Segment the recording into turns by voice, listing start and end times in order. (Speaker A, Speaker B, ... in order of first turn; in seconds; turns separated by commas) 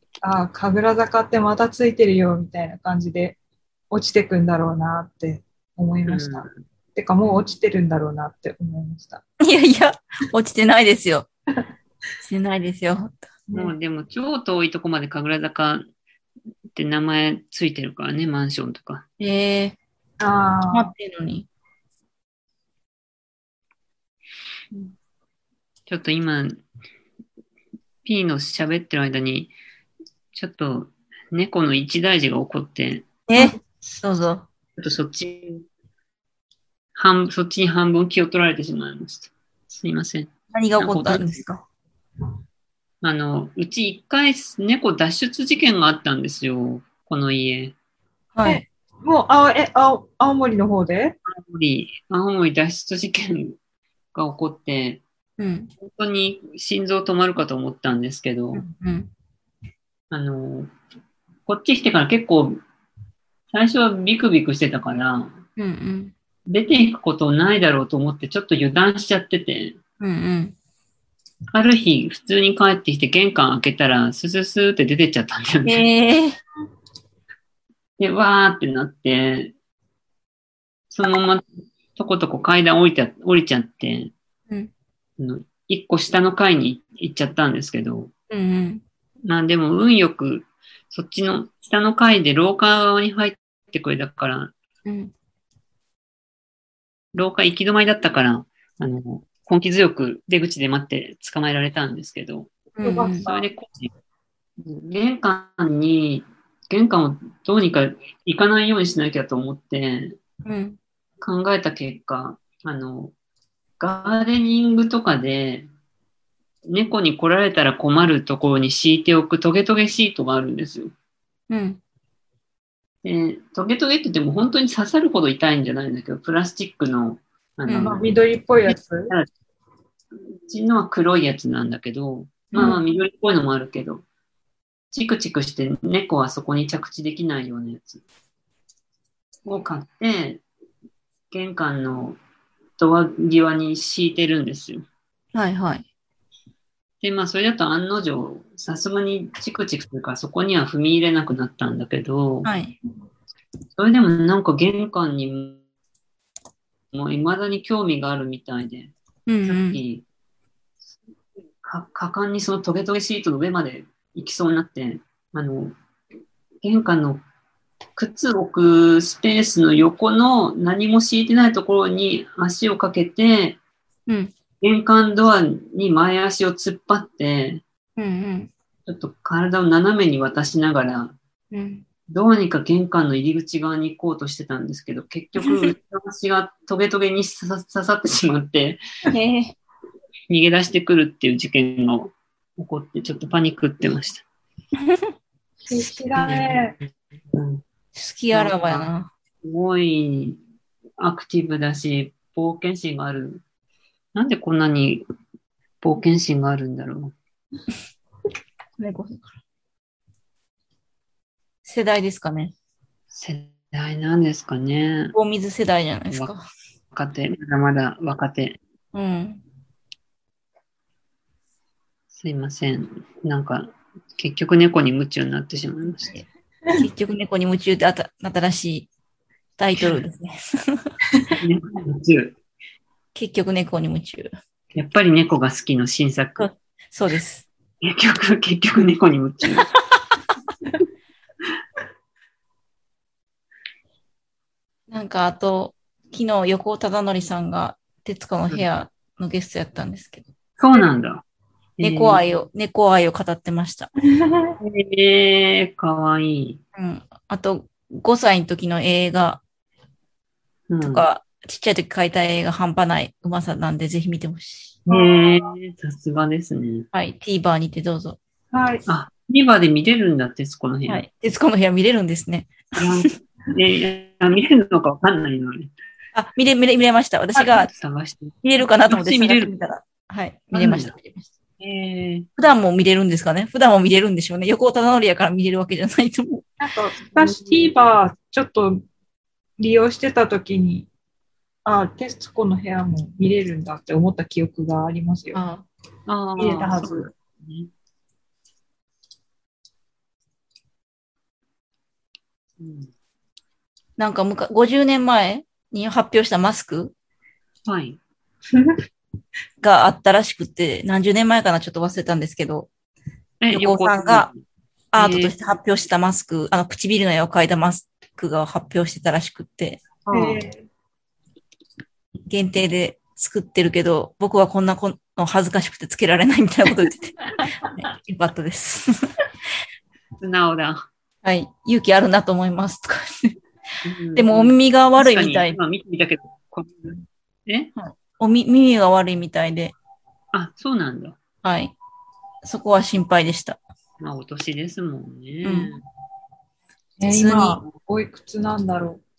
Speaker A: 0.2-3.4, Speaker A: 3.9-9.2, Speaker B: 6.1-6.5, Speaker C: 9.4-11.3, Speaker C: 12.2-13.3, Speaker A: 13.5-13.7, Speaker B: 13.5-15.8, Speaker B: 16.7-19.0, Speaker C: 19.2-19.8, Speaker A: 20.2-20.9, Speaker C: 20.7-21.5, Speaker B: 25.9-26.6, Speaker B: 28.0-29.5, Speaker B: 30.3-33.1, Speaker C: 33.3-34.5, Speaker B: 34.8-35.6, Speaker B: 36.9-41.4, Speaker C: 40.5-41.6, Speaker B: 43.0-47.8, Speaker C: 48.3-48.6, Speaker A: 48.4-51.2, Speaker B: 51.3-53.6, Speaker B: 54.1-55.0, Speaker C: 55.4-55.7, Speaker B: 55.8-58.6, Speaker C: 58.6-59.1, Speaker B: 60.1-60.7, Speaker B: 61.5-62.6, Speaker B: 63.5-65.4, Speaker C: 65.6-66.1, Speaker B: 66.5-69.8, Speaker C: 70.0-70.5, Speaker B: 71.5-75.8, Speaker C: 75.7-76.4, Speaker B: 78.0-79.5, Speaker B: 80.9-81.4, Speaker B: 81.9-84.1, Speaker B: 85.2-88.1, Speaker C: 88.3-88.8, Speaker B: 89.2-94.5, Speaker C: 94.8-95.1, Speaker B: 97.1-102.5, Speaker C: 102.8-103.2, Speaker A: 102.8-103.5, Speaker B: 103.2-103.9, Speaker B: 104.6-110.2, Speaker C: 110.4-110.8, Speaker B: 111.2-113.1, Speaker B: 113.8-115.7, Speaker B: 116.7-120.9, Speaker C: 121.5-121.8, Speaker B: 123.0-128.0, Speaker C: 127.7-128.0, Speaker A: 127.8-129.1, Speaker B: 128.7-129.3, Speaker B: 130.4-134.0, Speaker B: 134.9-138.0, Speaker B: 139.4-140.4, Speaker B: 141.3-142.2, Speaker B: 142.8-144.8, Speaker C: 145.3-145.8, Speaker B: 147.0-152.5, Speaker C: 152.4-152.7, Speaker B: 153.8-155.6, Speaker B: 156.9-158.9, Speaker C: 159.3-159.8, Speaker B: 159.4-160.0, Speaker B: 161.6-165.7, Speaker B: 166.6-167.2, Speaker B: 167.9-173.6, Speaker C: 174.1-174.3, Speaker B: 174.6-177.6, Speaker C: 178.0-178.5, Speaker B: 178.8-181.2, Speaker C: 181.5-181.8, Speaker B: 182.1-188.8, Speaker C: 185.4-185.7, Speaker C: 189.1-189.5, Speaker B: 190.3-194.2, Speaker C: 194.8-195.1, Speaker A: 195.7-196.7, Speaker B: 196.2-196.7, Speaker B: 197.3-197.6, Speaker C: 197.9-199.1, Speaker B: 198.3-198.9, Speaker B: 199.4-200.4, Speaker B: 201.0-203.4, Speaker B: 204.1-205.1, Speaker B: 205.8-207.1, Speaker C: 208.8-209.3, Speaker C: 211.6-212.5, Speaker B: 213.1-215.1, Speaker C: 215.1-216.4, Speaker B: 216.9-218.6, Speaker C: 218.9-219.4, Speaker B: 222.1-226.2, Speaker C: 226.7-228.9, Speaker C: 229.6-230.9, Speaker B: 231.4-232.3, Speaker C: 233.1-234.3, Speaker B: 234.7-236.5, Speaker C: 236.4-237.5, Speaker B: 237.8-239.7, Speaker C: 244.9-250.2, Speaker B: 250.6-251.2, Speaker B: 251.8-252.2, Speaker C: 251.8-253.9, Speaker A: 254.2-254.6, Speaker B: 254.6-256.6, Speaker C: 256.7-259.4, Speaker B: 260.7-261.1, Speaker C: 260.8-264.8, Speaker B: 264.9-266.9, Speaker A: 264.9-265.5, Speaker C: 266.9-268.2, Speaker A: 268.5-268.8, Speaker B: 268.9-271.0, Speaker C: 270.9-273.1, Speaker B: 272.8-275.7, Speaker C: 276.1-277.7, Speaker B: 277.4-279.6, Speaker C: 278.4-281.3, Speaker B: 280.5-280.9, Speaker B: 281.6-282.3, Speaker C: 282.4-286.4, Speaker A: 286.6-288.8, Speaker B: 287.1-287.7, Speaker A: 289.6-290.9, Speaker A: 291.6-295.4, Speaker C: 295.3-295.6, Speaker B: 296.1-297.7, Speaker A: 296.4-297.1, Speaker B: 302.6-302.9, Speaker C: 304.0-306.9, Speaker B: 307.7-308.0, Speaker A: 308.5-308.8, Speaker C: 309.6-312.7, Speaker B: 313.4-314.4, Speaker C: 313.5-314.3, Speaker C: 314.9-319.8, Speaker B: 314.9-315.3, Speaker B: 320.0-320.4, Speaker A: 320.1-320.6, Speaker C: 322.3-327.2, Speaker C: 327.7-328.9, Speaker B: 330.2-330.9, Speaker C: 331.2-333.3, Speaker B: 333.8-337.7, Speaker C: 334.1-335.6, Speaker C: 337.8-339.7, Speaker B: 340.3-341.2, Speaker C: 341.4-341.7, Speaker C: 342.4-343.6, Speaker B: 344.0-345.8, Speaker C: 345.4-345.7, Speaker A: 347.0-349.0, Speaker C: 347.1-347.6